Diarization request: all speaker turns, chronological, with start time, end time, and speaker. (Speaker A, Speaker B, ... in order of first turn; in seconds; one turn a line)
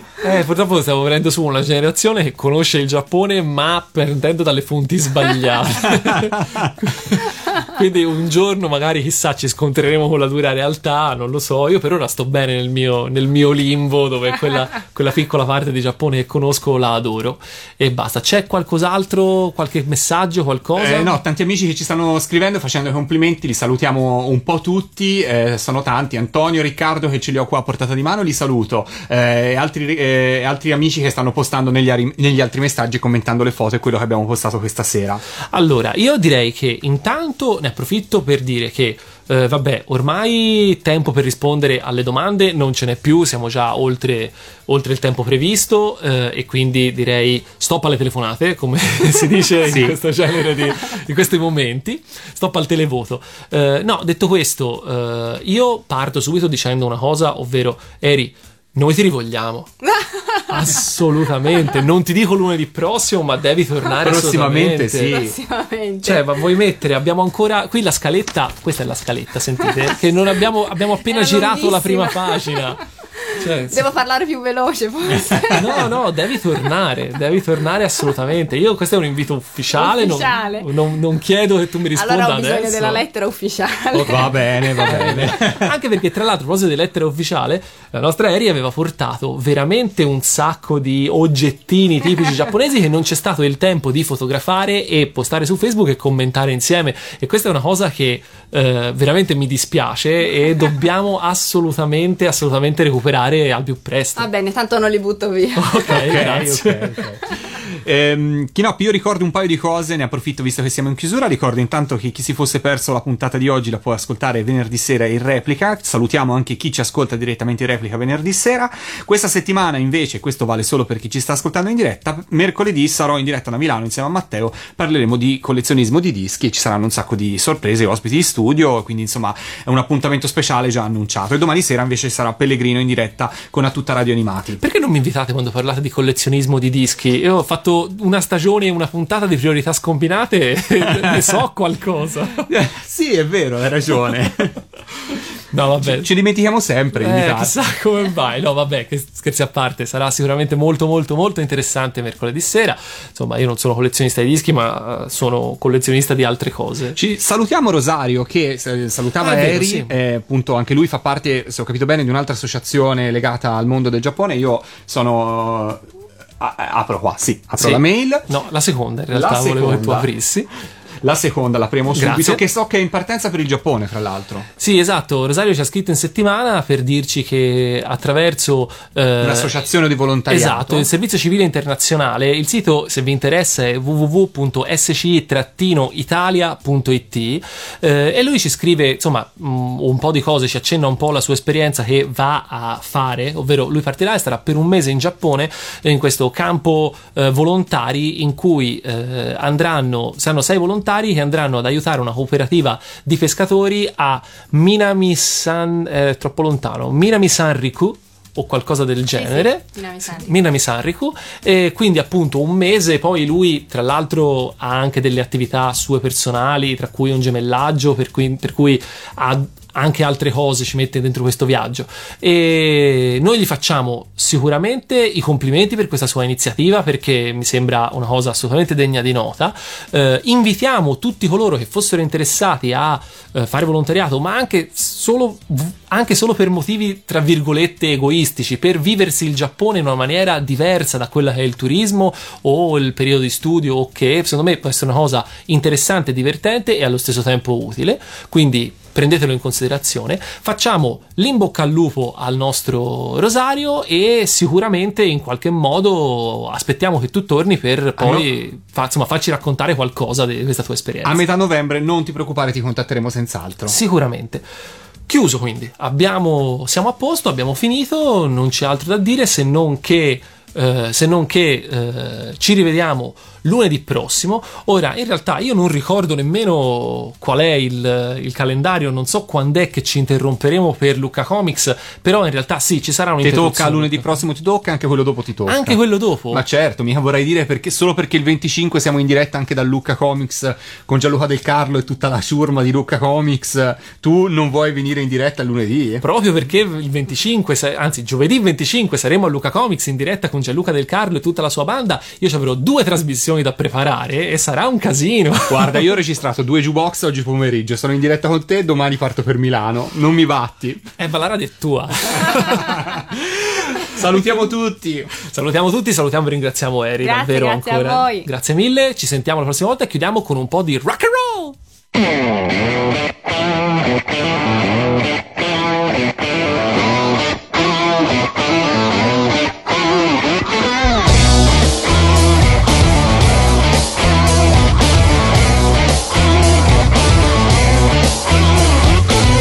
Speaker A: 0.2-21.2
Speaker B: 5.9-6.7
Speaker B: 20.8-35.2
Speaker A: 35.5-59.8
Speaker B: 49.6-50.0
Speaker C: 59.9-60.8
Speaker A: 60.5-65.2
Speaker B: 64.0-65.3
Speaker C: 65.1-66.2
Speaker A: 66.0-73.9
Speaker C: 71.1-72.7
Speaker C: 73.3-75.9
Speaker A: 75.5-83.0
Speaker C: 79.7-80.7
Speaker C: 82.0-85.1
Speaker B: 84.1-85.7
Speaker A: 84.8-104.3
Speaker C: 104.2-106.3
Speaker A: 105.6-107.0
Speaker B: 105.9-134.6
Speaker A: 134.6-142.5
Speaker B: 140.9-141.3
Speaker B: 142.5-144.6
Speaker A: 145.5-146.1
Speaker B: 145.8-147.6
Speaker A: 147.0-157.0
Speaker B: 157.0-165.8
Speaker A: 159.2-159.9
Speaker B: 166.4-168.3
Speaker A: 167.6-170.5
Speaker B: 169.1-170.1
Speaker B: 171.0-174.5
Speaker A: 171.9-172.4
Speaker A: 174.6-179.6
Speaker B: 179.2-180.9
Speaker A: 180.3-261.2
Speaker C: 209.2-210.3
Speaker B: 258.0-258.3
Speaker B: 261.0-263.8
Speaker A: 263.7-264.4
Speaker A: 265.1-284.2
Speaker B: 283.2-285.8
Speaker A: 285.5-286.4
Speaker B: 286.3-296.0
Speaker A: 296.0-305.9
Speaker B: 305.5-310.9
Speaker A: 311.0-313.0
Speaker B: 312.2-315.1
Speaker A: 315.2-321.6
Speaker C: 317.0-318.3